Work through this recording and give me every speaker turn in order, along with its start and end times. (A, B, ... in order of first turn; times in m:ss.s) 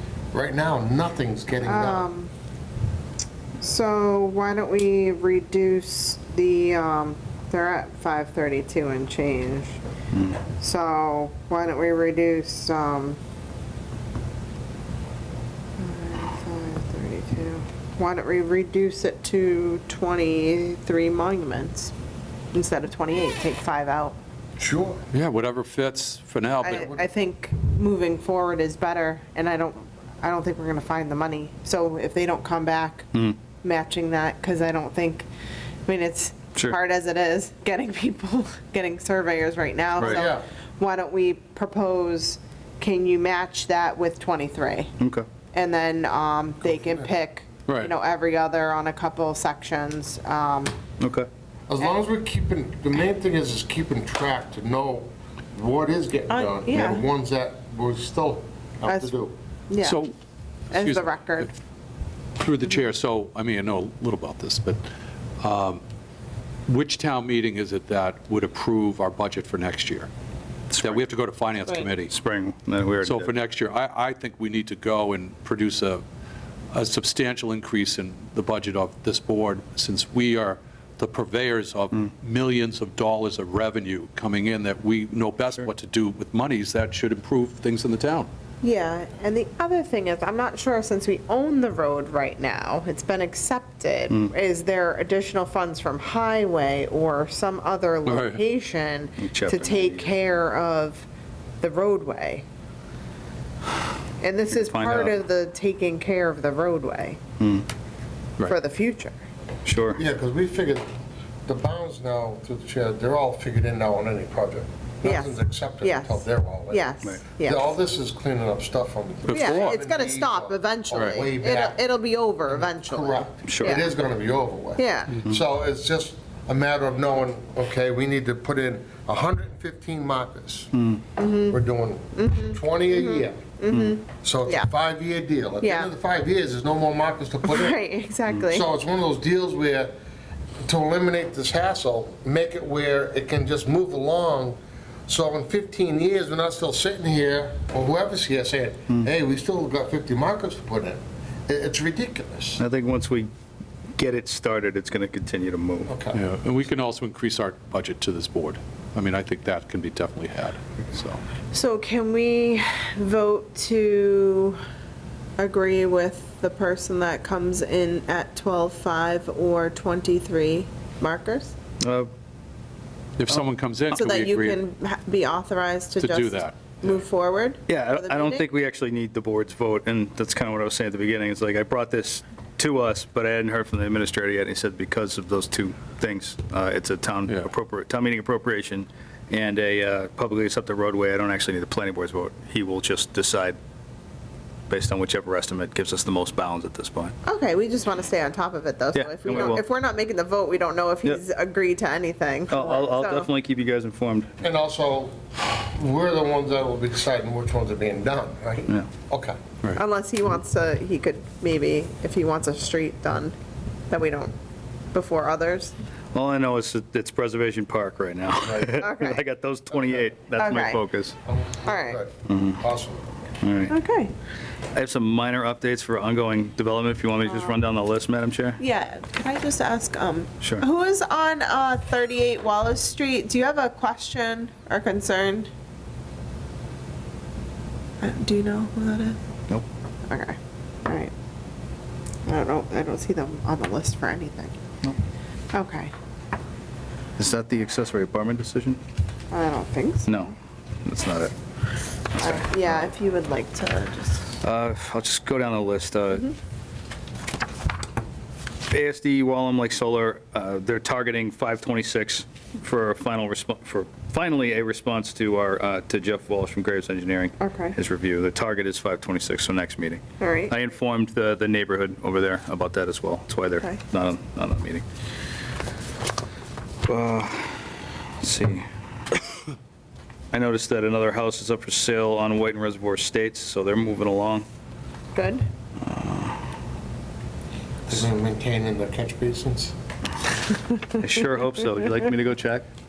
0:00.3-0:02.1 A
0:01.6-0:02.3 B
0:03.6-0:09.8 B
0:10.1-0:10.4 C
0:10.6-0:13.2 B
0:15.8-0:21.9 B
0:22.5-0:24.2 B
0:24.6-0:25.0 A
0:25.1-0:26.9 D
0:26.6-0:33.1 B
0:26.7-0:27.0 A
0:33.6-0:35.3 B
0:35.8-0:44.9 B
0:40.0-0:40.4 A
0:45.0-0:45.2 C
0:45.5-0:50.7 B
0:46.6-0:47.1 A
0:47.7-0:47.9 D
0:51.0-0:51.3 C
0:51.7-0:59.3 A
0:56.3-0:57.1 B
0:58.8-0:59.1 B
0:59.7-1:00.0 B
0:59.8-1:00.1 D
1:00.7-1:01.5 D
1:00.7-1:01.5 B
1:02.4-1:04.8 D
1:05.4-1:05.8 D
1:06.7-1:10.1 D
1:10.7-1:11.0 C
1:10.8-1:12.1 D
1:12.1-1:13.3 C
1:13.0-1:16.0 D
1:16.7-1:28.3 D
1:28.6-1:41.0 B
1:38.0-1:38.4 D
1:39.2-1:40.2 C
1:41.6-1:42.4 B
1:44.2-1:47.2 B
1:44.5-1:45.2 C
1:47.4-1:47.7 C
1:48.5-1:49.1 B
1:49.6-1:50.0 C
1:50.0-1:50.9 A
1:51.5-2:01.8 A
1:55.0-1:57.7 B
1:59.2-1:59.8 D
1:59.3-2:03.9 B
2:00.9-2:01.2 D
2:02.5-2:10.7 A
2:03.5-2:03.8 C
2:04.8-2:05.3 B
2:10.8-2:11.0 C
2:11.2-2:11.6 B
2:11.4-2:13.5 A
2:12.1-2:14.7 B
2:13.7-2:14.0 C
2:14.2-2:17.8 A
2:15.6-2:15.9 B
2:17.4-2:18.7 B
2:18.5-2:19.9 A
2:20.6-2:32.6 A
2:32.6-2:33.3 C
2:34.0-2:35.9 C
2:35.9-2:36.2 A
2:36.1-2:41.2 D
2:41.5-2:44.6 B
2:45.4-2:51.5 B
2:51.8-2:52.1 C
2:53.2-2:54.6 D
2:53.9-2:58.4 B
2:56.0-2:57.0 D
2:57.7-3:13.6 C
3:14.7-3:17.1 C
3:17.2-3:23.3 B
3:18.9-3:19.6 C
3:22.5-3:24.3 C
3:24.4-3:29.4 A
3:29.7-3:33.3 B
3:33.9-3:34.3 B
3:34.9-3:35.7 B
3:36.1-3:41.1 C
3:38.4-3:38.8 A
3:38.8-3:39.2 B
3:40.4-3:40.8 B
3:41.2-3:43.0 A
3:41.6-3:42.0 B
3:42.2-3:42.6 C
3:43.4-3:43.7 C
3:43.7-3:44.1 B
3:44.7-3:48.6 C
3:47.3-3:47.6 B
3:48.6-3:55.5 B
3:58.0-3:59.2 B
4:00.1-4:01.1 B
4:02.2-4:04.6 B
4:05.5-4:05.9 B
4:07.2-4:08.8 C
4:09.3-4:10.3 B
4:10.0-4:11.3 C
4:12.1-4:12.9 C
4:12.2-4:14.4 B
4:14.4-4:16.3 C
4:18.7-4:34.8 C
4:27.4-4:27.7 B
4:30.2-4:30.5 B
4:36.8-4:38.6 C
4:40.3-4:44.4 C
4:45.1-4:45.5 B
4:45.8-4:46.4 C
4:47.9-4:49.7 A
4:51.0-4:52.6 C